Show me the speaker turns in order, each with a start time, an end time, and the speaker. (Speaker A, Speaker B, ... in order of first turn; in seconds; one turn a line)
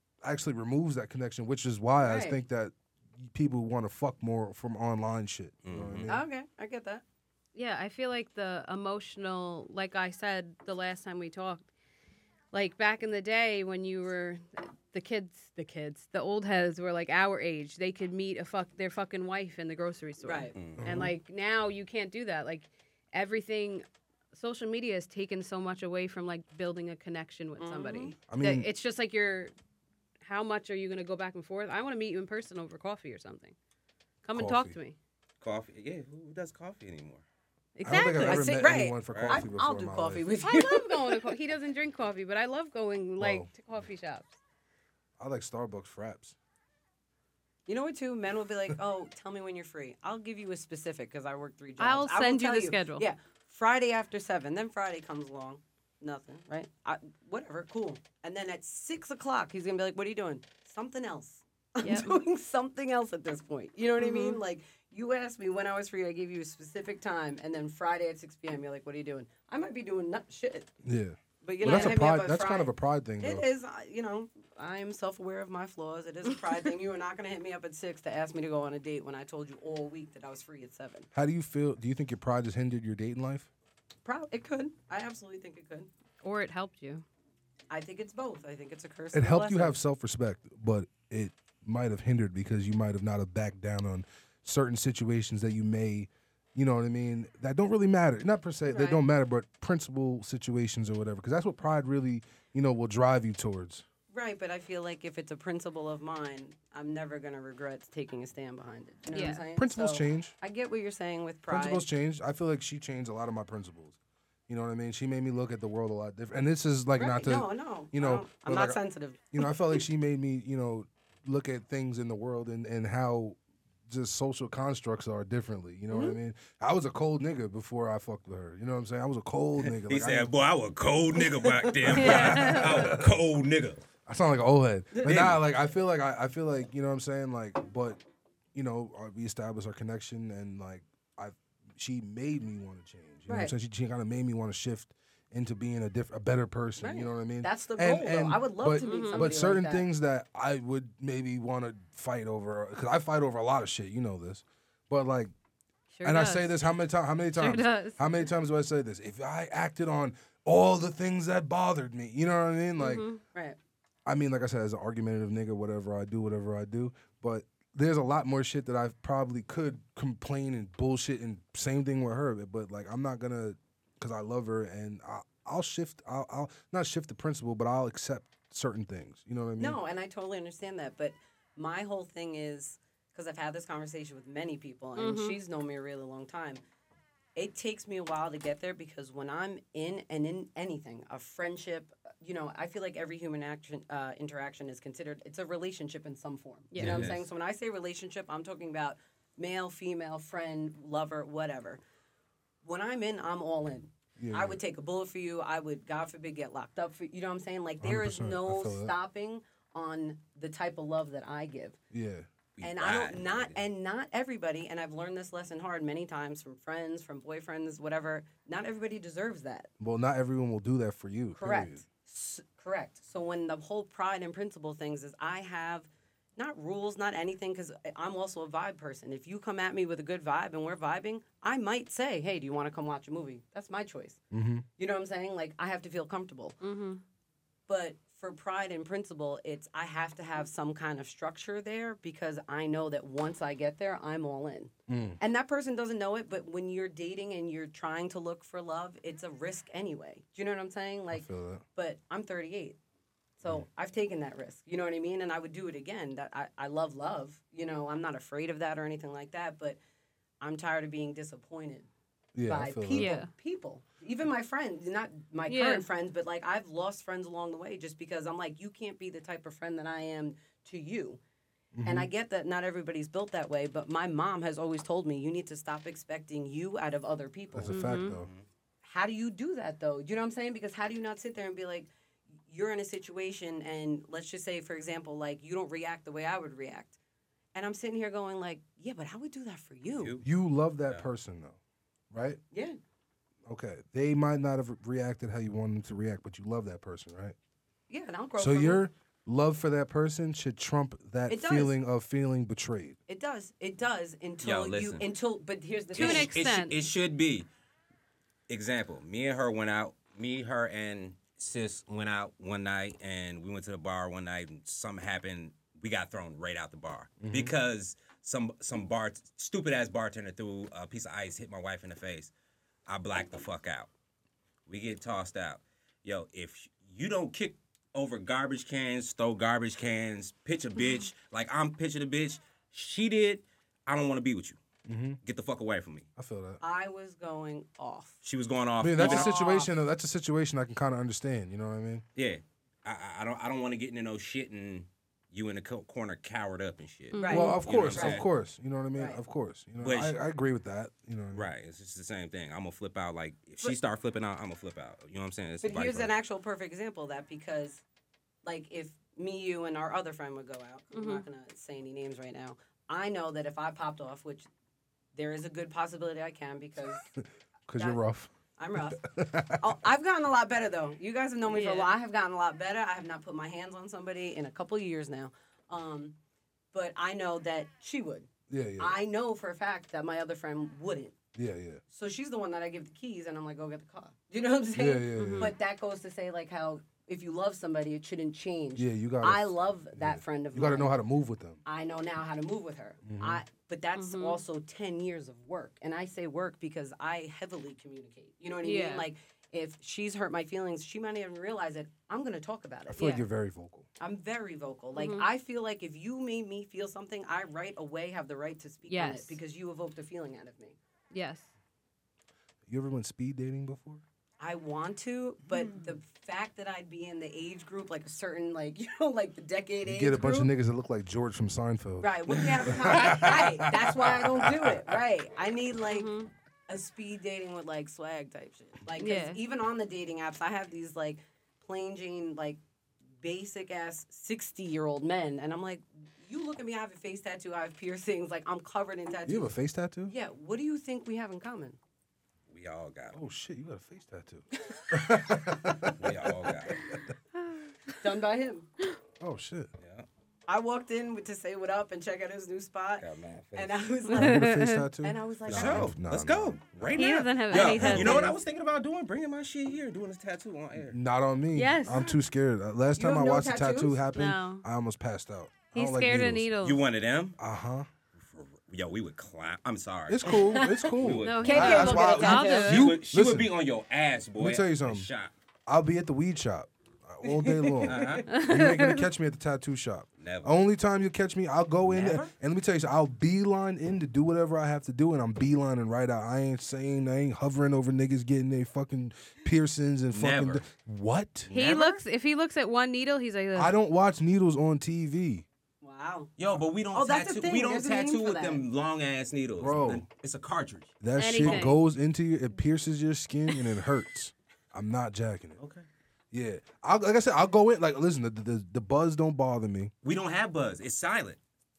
Speaker A: 0.2-6.2
Speaker B: 2.0-2.4
Speaker C: 5.6-6.1
Speaker B: 6.1-7.0
Speaker D: 7.5-11.7
Speaker D: 12.5-29.5
Speaker B: 20.2-20.5
Speaker C: 20.5-20.9
Speaker A: 20.8-21.1
Speaker B: 27.6-28.1
Speaker A: 28.3-28.7
Speaker D: 30.2-33.5
Speaker D: 34.2-35.0
Speaker A: 34.3-34.8
Speaker C: 35.4-37.2
Speaker D: 37.8-38.6
Speaker A: 37.8-40.3
Speaker B: 38.1-41.3
Speaker C: 39.1-39.4
Speaker D: 40.4-44.4
Speaker A: 43.2-43.5
Speaker A: 45.2-46.4
Speaker B: 47.7-70.7
Speaker D: 51.8-53.0
Speaker D: 61.8-62.2
Speaker D: 64.0-64.4
Speaker A: 70.8-73.4
Speaker B: 71.4-81.1
Speaker A: 81.1-83.5
Speaker B: 84.0-85.9
Speaker D: 86.2-87.0
Speaker B: 87.7-89.8
Speaker A: 89.1-103.8
Speaker B: 98.7-99.0
Speaker B: 104.1-111.8
Speaker D: 109.1-109.4
Speaker A: 109.5-110.3
Speaker A: 111.5-114.0
Speaker A: 114.5-118.8
Speaker B: 117.0-119.8
Speaker A: 119.3-123.4
Speaker A: 123.9-130.3
Speaker B: 125.9-126.2
Speaker C: 129.6-133.8
Speaker B: 131.6-132.4
Speaker A: 131.8-133.2
Speaker D: 131.9-132.9
Speaker A: 134.1-138.0
Speaker B: 134.9-135.2
Speaker C: 135.0-135.4
Speaker A: 138.5-155.3
Speaker B: 143.3-143.5
Speaker B: 146.8-149.9
Speaker D: 148.8-149.3
Speaker D: 155.9-156.5
Speaker A: 156.0-163.1
Speaker D: 157.3-158.0
Speaker D: 162.8-163.2
Speaker A: 164.1-179.8
Speaker B: 179.6-186.6
Speaker D: 184.9-185.4
Speaker B: 187.3-201.8
Speaker D: 196.7-197.0
Speaker C: 196.8-197.2
Speaker A: 196.8-197.1
Speaker B: 202.6-211.8
Speaker A: 204.2-204.6
Speaker A: 207.8-208.9
Speaker A: 211.9-212.3
Speaker C: 212.6-213.6
Speaker B: 212.6-219.7
Speaker A: 219.8-221.8
Speaker B: 221.3-234.2
Speaker A: 234.3-234.6
Speaker B: 234.8-236.6
Speaker D: 236.6-237.0
Speaker B: 237.7-252.8
Speaker A: 244.9-245.2
Speaker A: 251.1-251.6
Speaker B: 253.4-259.8
Speaker B: 260.4-261.9
Speaker A: 262.3-263.1
Speaker B: 262.5-271.2
Speaker D: 262.9-263.3
Speaker D: 265.5-265.9
Speaker A: 271.7-272.1
Speaker B: 271.8-277.8
Speaker A: 277.5-278.3
Speaker D: 277.7-278.2
Speaker C: 278.1-278.4
Speaker B: 278.8-281.9
Speaker B: 282.5-286.9
Speaker B: 287.5-290.2
Speaker C: 290.0-290.2
Speaker A: 290.2-291.6
Speaker A: 292.1-292.4
Speaker B: 292.5-292.8
Speaker A: 293.4-297.4
Speaker B: 297.9-298.8
Speaker A: 298.4-303.0
Speaker B: 301.3-301.7
Speaker B: 303.1-306.3
Speaker C: 304.4-305.0
Speaker D: 305.9-306.8
Speaker C: 305.9-307.5
Speaker C: 308.5-322.3
Speaker A: 317.2-317.5
Speaker C: 322.9-323.9
Speaker C: 324.7-334.6
Speaker A: 334.9-335.2
Speaker C: 335.2-336.1
Speaker A: 336.2-336.6
Speaker B: 336.6-338.1
Speaker C: 338.2-339.3
Speaker A: 338.8-342.0
Speaker B: 339.0-339.7
Speaker C: 342.1-348.2
Speaker D: 347.1-347.6
Speaker B: 347.2-348.2
Speaker A: 347.3-351.5
Speaker B: 348.9-349.2
Speaker C: 349.8-350.1
Speaker C: 351.3-356.1
Speaker B: 355.6-357.8
Speaker B: 358.4-364.5
Speaker D: 360.9-361.2
Speaker B: 365.1-367.1
Speaker A: 367.2-368.3
Speaker B: 368.6-369.0
Speaker A: 369.0-369.6
Speaker B: 369.6-376.1
Speaker D: 371.4-371.9
Speaker B: 376.7-381.1
Speaker A: 378.5-379.0
Speaker A: 381.3-381.8
Speaker B: 381.9-390.9
Speaker A: 384.7-385.5
Speaker D: 385.1-385.5
Speaker A: 388.8-391.6
Speaker B: 391.6-403.2
Speaker A: 393.0-393.4
Speaker D: 393.9-394.4
Speaker D: 398.6-399.1
Speaker A: 402.9-403.9
Speaker B: 404.0-410.8
Speaker D: 404.9-405.2
Speaker D: 408.9-409.4
Speaker D: 411.1-411.5
Speaker A: 412.6-414.0
Speaker B: 414.4-420.5
Speaker A: 419.8-424.9
Speaker B: 422.0-426.1
Speaker D: 425.9-426.3
Speaker B: 426.7-432.6
Speaker D: 429.0-429.4
Speaker B: 433.2-439.5
Speaker A: 439.2-440.1
Speaker B: 440.1-441.8
Speaker C: 442.5-443.2
Speaker A: 443.1-447.1
Speaker C: 445.9-446.8
Speaker D: 447.3-447.9
Speaker B: 448.0-448.7
Speaker A: 449.2-449.7
Speaker C: 449.8-450.1
Speaker B: 450.5-454.5
Speaker C: 453.0-453.9
Speaker D: 454.1-454.9
Speaker A: 454.1-458.3
Speaker B: 455.0-455.9
Speaker C: 455.5-461.0
Speaker D: 456.9-458.4
Speaker A: 460.8-466.5
Speaker D: 461.5-462.2
Speaker B: 463.0-464.0
Speaker D: 464.1-464.6
Speaker D: 465.7-466.8
Speaker C: 466.6-467.4
Speaker A: 467.4-467.9
Speaker C: 468.2-475.3
Speaker A: 470.1-473.5
Speaker B: 470.3-470.7
Speaker D: 471.2-472.9
Speaker B: 471.4-472.9
Speaker A: 474.4-475.1
Speaker A: 475.7-491.5
Speaker B: 477.2-478.2
Speaker C: 477.9-478.3
Speaker D: 478.3-479.0
Speaker C: 480.2-480.5
Speaker C: 481.9-482.3
Speaker C: 490.1-490.6
Speaker C: 491.5-492.0
Speaker D: 491.5-493.7
Speaker A: 493.5-495.4
Speaker B: 495.8-496.3
Speaker C: 496.4-501.7
Speaker B: 496.9-498.6
Speaker A: 499.6-500.0
Speaker A: 501.0-505.6
Speaker D: 501.2-501.8
Speaker C: 505.6-505.8
Speaker A: 506.3-509.9
Speaker C: 510.0-511.4